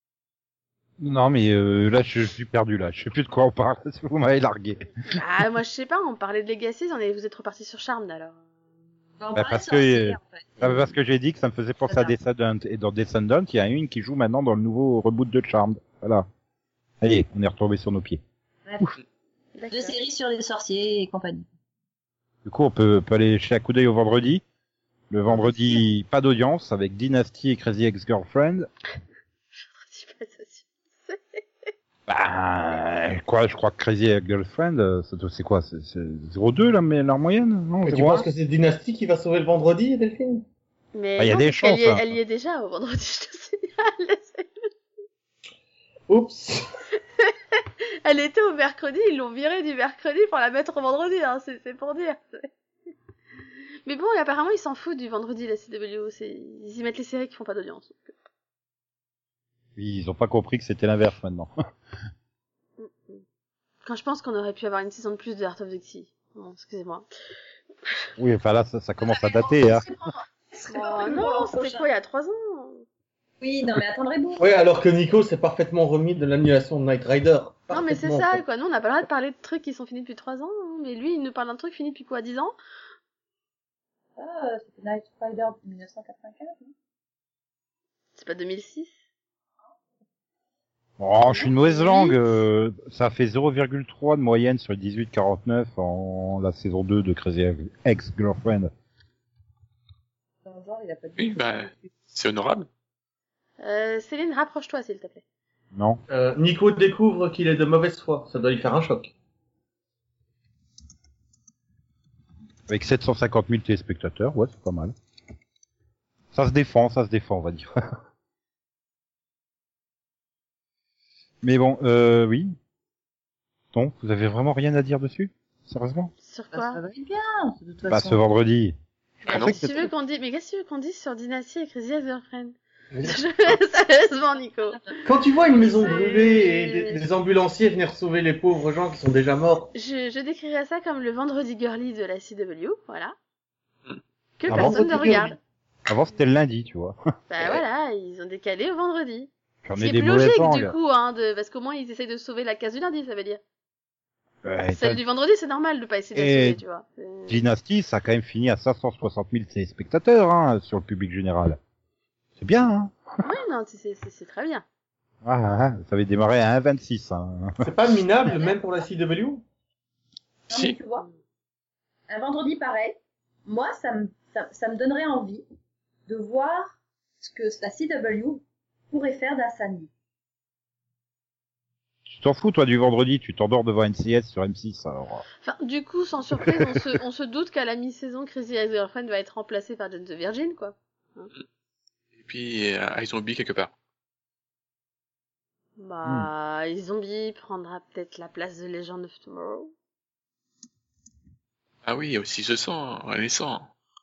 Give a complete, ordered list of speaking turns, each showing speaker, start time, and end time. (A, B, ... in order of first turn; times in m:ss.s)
0:01.0-0:05.2 A
0:05.1-0:08.4 B
0:09.2-0:10.9 C
0:09.3-0:16.3 A
0:11.9-0:12.2 C
0:17.0-0:18.2 A
0:18.7-0:18.9 C
0:19.6-0:20.0 B
0:19.7-0:21.5 C
0:22.4-0:24.4 A
0:25.1-0:28.7 A
0:29.6-0:31.7 B
0:32.1-0:38.3 A
0:37.9-0:40.4 D
0:41.0-0:44.5 B
0:41.2-0:42.1 A
0:46.1-0:46.6 D
0:47.2-0:52.5 B
0:53.9-0:58.1 B
0:59.8-1:01.6 A
1:02.8-1:03.2 B
1:03.8-1:07.1 B
1:08.2-1:09.9 A
1:09.0-1:11.9 C
1:10.7-1:12.8 B
1:13.4-1:14.5 C
1:14.4-1:18.4 D
1:17.7-1:22.6 B
1:24.2-1:26.7 C
1:28.2-1:29.0 B
1:31.0-1:38.7 A
1:31.3-1:32.2 B
1:40.4-1:41.9 C
1:41.2-1:42.7 E
1:43.6-1:45.2 B
1:45.7-1:46.0 A
1:46.1-1:49.1 D
1:52.7-1:54.9 A
1:56.3-1:57.7 A
2:01.4-2:02.6 A
2:03.7-2:06.1 A
2:06.2-2:06.8 B
2:06.5-2:08.2 C
2:07.9-2:09.9 A
2:09.3-2:15.0 B
2:09.3-2:09.6 E
2:12.9-2:13.2 D
2:15.0-2:19.7 D
2:15.6-2:17.0 B
2:19.7-2:23.2 B
2:24.4-2:25.4 B
2:24.5-2:25.2 A
2:24.5-2:25.4 D
2:25.9-2:27.0 A
2:27.3-2:33.4 B
2:29.6-2:30.7 A
2:34.4-2:35.0 A
2:34.7-2:37.4 B
2:36.2-2:36.6 A
2:37.3-2:41.6 A
2:42.4-2:42.9 A
2:43.2-2:44.6 B
2:45.2-2:47.7 A
2:47.6-2:49.4 D
2:50.5-2:51.1 C
2:50.5-2:50.8 E
2:52.1-2:55.4 C
2:56.1-2:59.9 C
3:02.1-3:05.2 A
3:05.4-3:11.3 B
3:12.2-3:13.7 E
3:15.8-3:19.7 B
3:21.8-3:23.7 E